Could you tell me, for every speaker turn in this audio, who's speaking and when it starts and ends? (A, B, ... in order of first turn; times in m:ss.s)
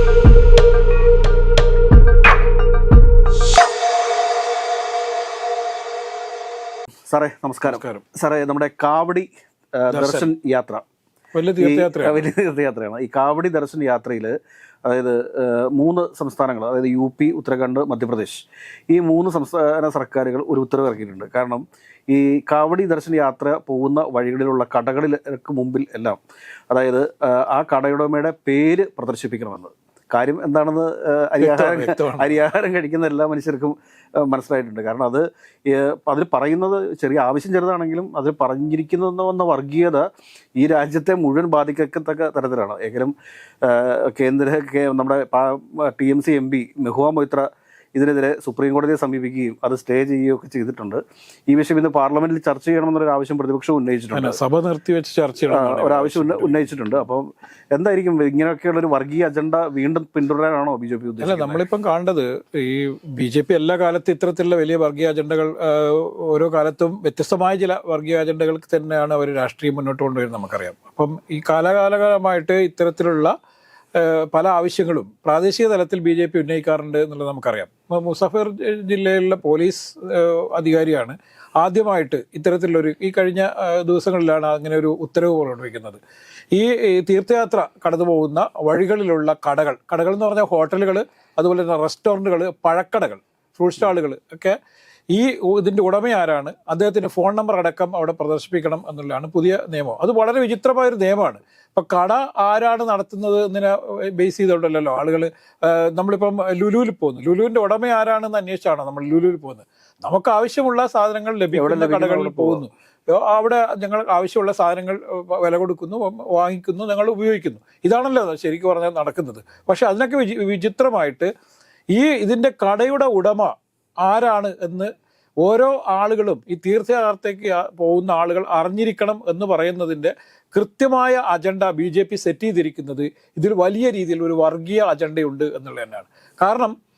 0:07.1-0:10.8 A
0:07.7-0:08.0 B
0:09.9-0:10.3 B
0:11.3-0:12.2 B
0:11.6-0:14.3 A
0:14.9-0:26.2 A
0:26.7-0:40.0 A
0:31.4-0:32.4 B
0:40.6-0:54.4 A
0:54.1-0:56.8 B
0:55.5-1:01.6 A
1:01.2-1:13.3 B
1:14.0-1:26.0 B
1:26.5-1:34.6 B
1:35.1-2:01.3 B
1:51.5-1:52.6 A
2:01.9-2:03.5 B
2:04.0-2:04.9 B
2:05.4-2:16.7 B